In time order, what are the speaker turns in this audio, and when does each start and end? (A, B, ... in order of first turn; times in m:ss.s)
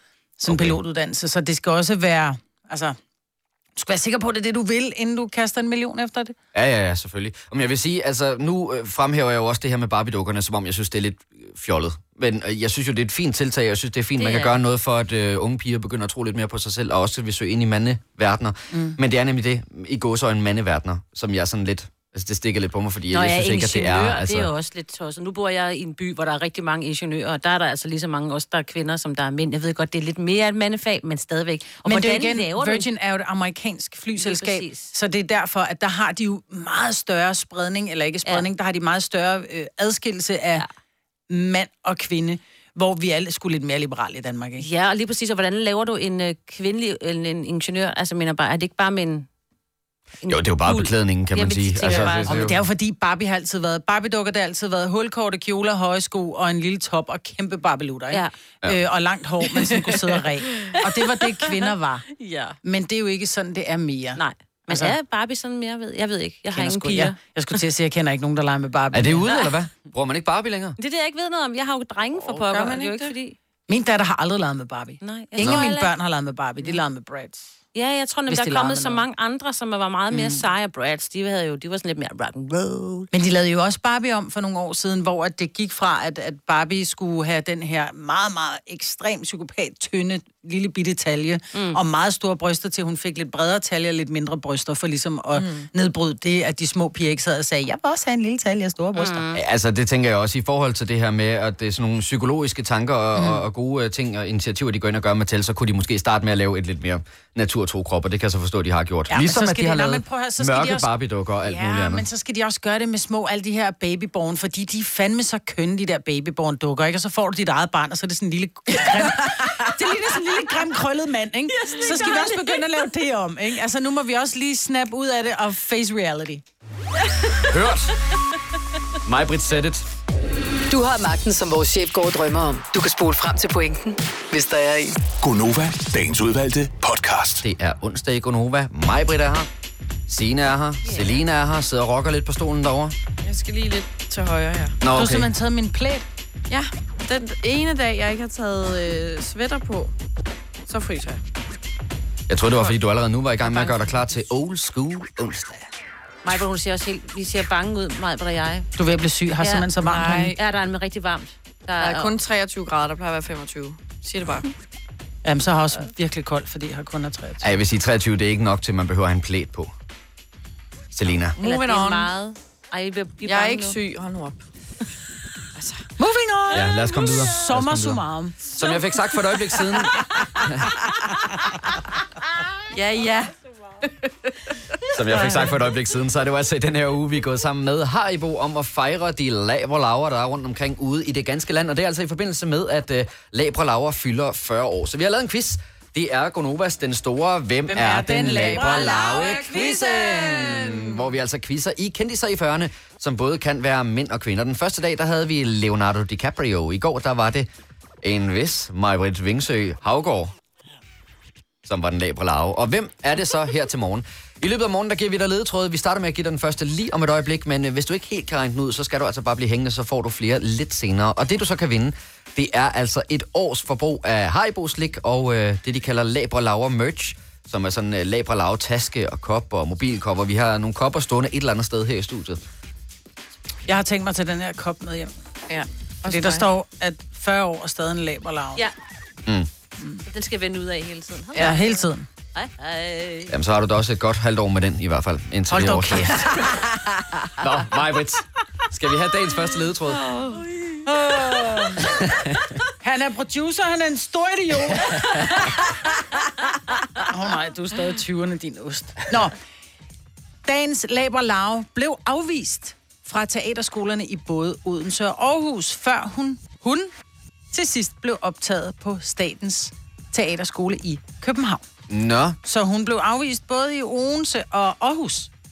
0:00.4-0:03.0 A
0:00.5-0:00.8 B
0:03.8-0:06.4 A
0:06.5-0:24.5 B
0:14.2-0:14.6 C
0:23.1-0:32.9 C
0:31.9-0:40.6 A
0:34.2-0:34.9 C
0:41.3-0:44.7 A
0:44.6-0:49.3 C
0:50.2-0:52.4 C
0:50.3-0:52.6 B
0:51.9-1:02.1 A
1:00.7-1:02.6 C
1:02.6-1:05.0 A
1:04.2-1:07.2 C
1:06.5-1:09.4 A
1:08.9-1:10.8 B
1:10.8-1:13.4 C
1:12.3-1:13.1 D
1:13.7-1:17.5 A
1:15.0-1:15.9 C
1:15.4-1:15.7 B
1:17.7-1:23.1 C
1:18.3-1:19.0 A
1:20.1-1:20.4 A
1:23.1-1:39.3 A
1:31.5-1:31.8 C
1:35.4-1:35.7 D
1:39.0-1:39.4 C
1:39.3-1:52.1 B
1:43.2-1:43.4 A
1:49.1-1:50.9 A
1:51.4-2:06.4 A
2:01.7-2:02.3 C
2:07.4-2:08.0 B
2:09.0-2:09.8 B
2:10.7-2:15.0 E
2:15.2-2:17.4 F
2:17.4-2:19.5 B
2:20.1-2:23.0 B
2:20.8-2:21.2 C
2:23.2-2:24.8 D
2:24.8-2:25.3 B
2:24.9-2:26.0 A
2:26.5-2:29.9 D
2:30.7-2:31.2 D
2:32.3-2:35.7 B
2:33.4-2:33.8 C
2:36.2-2:38.7 C
2:38.8-2:40.4 A
2:39.4-2:39.7 C
2:39.8-2:40.4 D
2:40.3-2:42.2 C
2:41.8-2:44.5 D
2:45.2-2:47.6 A
2:47.4-2:49.7 B
2:50.9-2:51.4 B
2:51.4-2:52.1 D
2:51.4-2:53.8 C
2:53.2-2:54.4 D
2:55.6-2:55.9 D
2:56.0-2:58.4 A
2:56.5-3:00.7 B
3:02.8-3:03.2 C
3:04.9-3:27.5 B
3:17.7-3:21.0 A
3:28.0-3:30.3 B
3:31.6-3:52.4 B
3:53.7-3:55.1 A
3:55.5-3:56.5 D
3:56.0-3:58.6 A
4:00.1-4:03.3 C
4:01.4-4:02.1 A
4:03.3-4:06.3 B
4:05.5-4:07.0 A
4:07.4-4:10.0 B
4:10.0-4:10.4 D
4:10.8-4:12.0 A
4:11.8-4:12.4 B
4:12.8-4:16.2 A
4:17.0-4:19.4 A
4:20.5-4:26.9 A
4:27.5-4:31.6 A
4:31.9-4:32.4 B
4:32.4-4:35.3 A